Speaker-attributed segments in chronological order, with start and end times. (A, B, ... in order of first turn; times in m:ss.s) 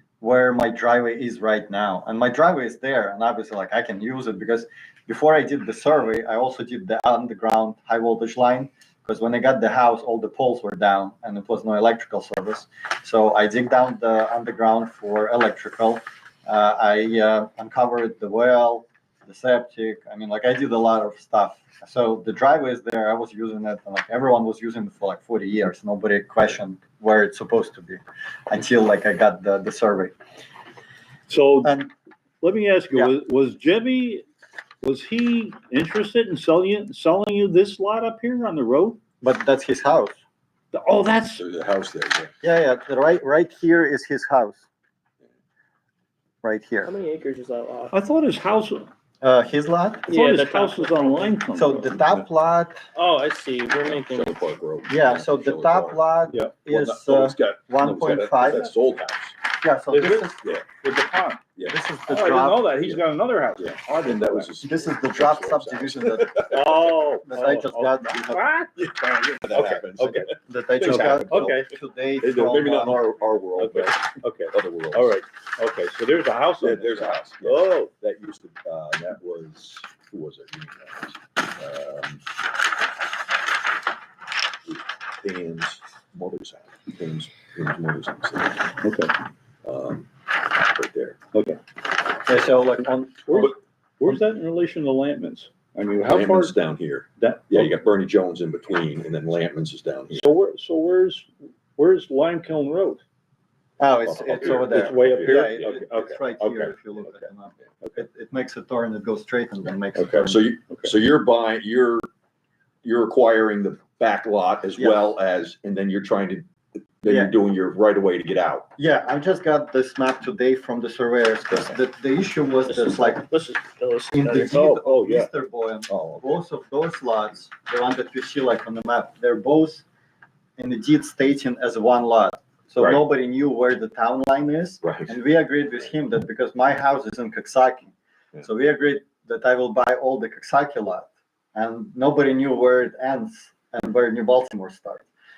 0:00.2-0:30.1 A
0:31.3-0:31.8 B
0:31.6-0:31.9 A
0:32.4-0:34.2 B
0:34.8-0:39.0 B
0:39.2-0:40.2 A
0:40.7-0:41.4 B
0:41.4-0:42.3 C
0:42.4-0:44.7 A
0:46.4-0:46.9 A
0:46.8-0:48.0 D
0:47.9-0:48.9 B
0:49.2-0:50.1 A
0:50.1-0:50.9 D
0:50.1-0:52.2 B
0:51.5-0:52.8 A
0:53.0-0:54.4 D
0:53.7-0:56.1 C
0:54.9-0:58.7 A
0:56.7-0:59.4 C
0:59.6-1:00.4 A
0:59.9-1:01.4 B
1:01.7-1:02.6 A
1:02.1-1:04.5 B
1:03.6-1:06.8 C
1:04.6-1:06.6 A
1:06.5-1:11.7 B
1:07.2-1:08.4 A
1:08.8-1:11.6 C
1:10.5-1:13.1 A
1:12.2-1:15.2 C
1:13.6-1:17.9 B
1:16.6-1:22.3 C
1:24.7-1:28.7 C
1:28.8-1:29.1 B
1:29.6-1:31.2 C
1:31.3-1:31.6 B
1:32.2-1:33.5 A
1:33.3-1:36.5 B
1:36.0-1:40.3 C
1:37.2-1:37.7 B
1:40.1-1:43.0 B
1:43.8-1:50.5 A
1:44.1-1:45.6 C
1:44.4-1:46.8 B
1:50.0-1:52.1 C
1:52.8-1:58.7 C
1:57.1-1:57.3 A
1:58.8-2:03.2 A
2:02.7-2:04.6 D
2:04.1-2:09.8 A
2:04.4-2:05.3 B
2:05.9-2:06.4 C
2:10.6-2:25.0 A
2:14.8-2:15.2 C